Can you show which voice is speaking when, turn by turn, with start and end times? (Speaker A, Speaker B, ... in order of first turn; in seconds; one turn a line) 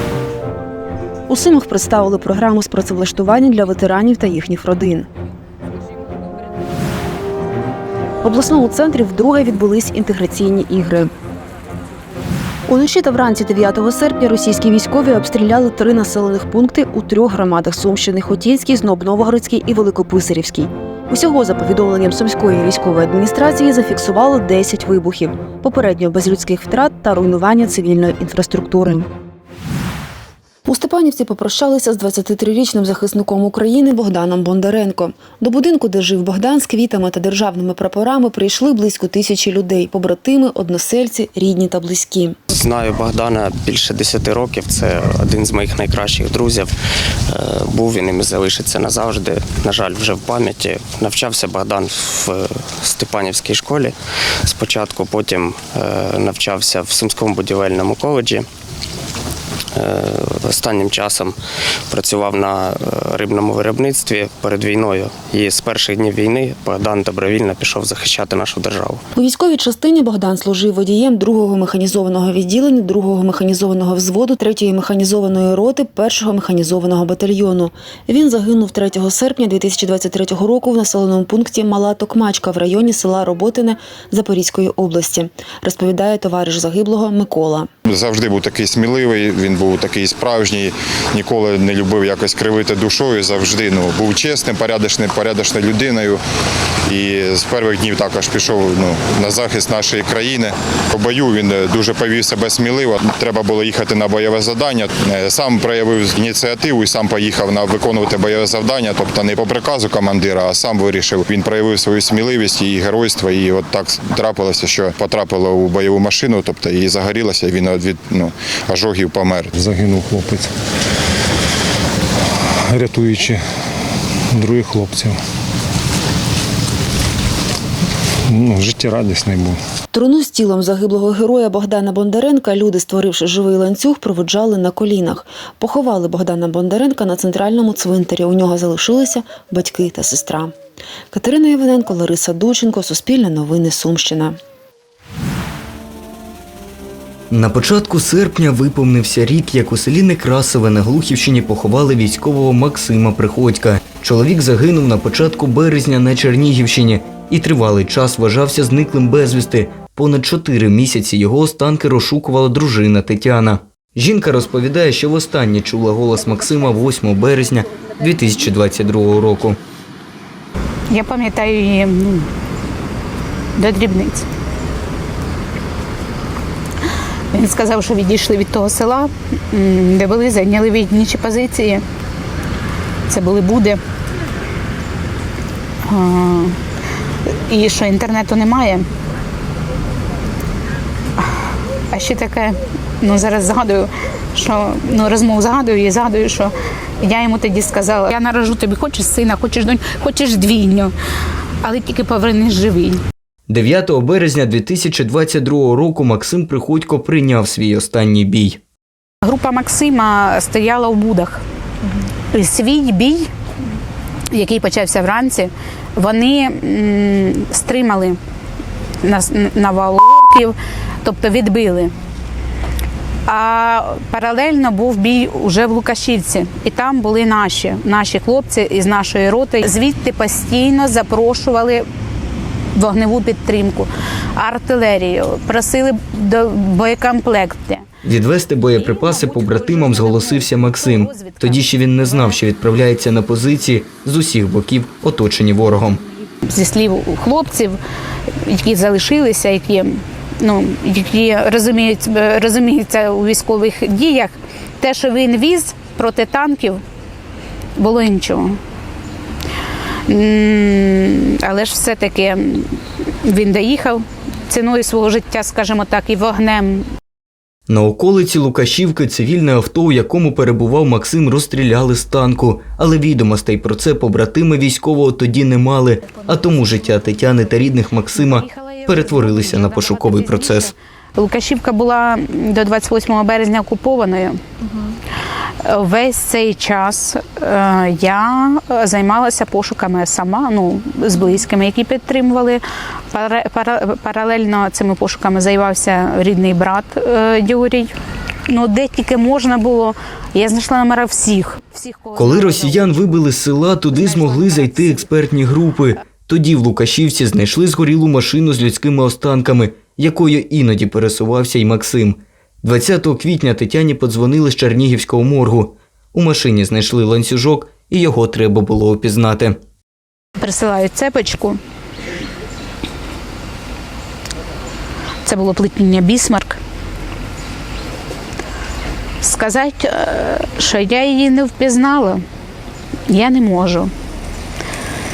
Speaker A: 1.3-5.1
Speaker A: 8.2-11.1
Speaker A: 12.7-29.1
Speaker A: 30.6-42.4
Speaker B: 42.5-46.7
Speaker B: 47.3-53.9
Speaker B: 54.5-58.5
Speaker B: 59.8-61.3
Speaker B: 61.9-69.0
Speaker A: 69.1-87.7
Speaker C: 87.9-96.2
Speaker C: 96.9-119.5
Speaker D: 119.5-120.5
Speaker D: 122.7-123.4
Speaker D: 124.3-125.2
Speaker D: 128.3-129.6
Speaker A: 129.9-140.5
Speaker A: 141.1-144.4
Speaker E: 147.3-169.6
Speaker F: 170.9-172.3
Speaker F: 173.6-174.2
Speaker F: 177.3-181.8
Speaker F: 183.1-183.8
Speaker F: 185.9-186.6
Speaker F: 187.5-188.9
Speaker F: 191.9-200.9
Speaker F: 201.6-203.0
Speaker E: 203.5-208.6
Speaker F: 209.2-211.4
Speaker F: 212.3-213.3
Speaker F: 214.3-218.2
Speaker F: 219.0-221.9
Speaker F: 223.2-231.9
Speaker F: 232.8-237.8
Speaker E: 238.0-246.0
Speaker F: 238.8-241.6
Speaker F: 246.5-247.8
Speaker F: 248.4-256.8
Speaker F: 257.8-258.6
Speaker F: 260.1-266.9
Speaker E: 267.7-280.7
Speaker F: 278.1-284.4
Speaker F: 285.6-297.9
Speaker F: 298.5-303.1
Speaker E: 302.1-319.6
Speaker F: 303.9-305.1
Speaker F: 320.4-321.6
Speaker F: 325.2-326.6
Speaker F: 329.2-332.2
Speaker F: 333.1-333.9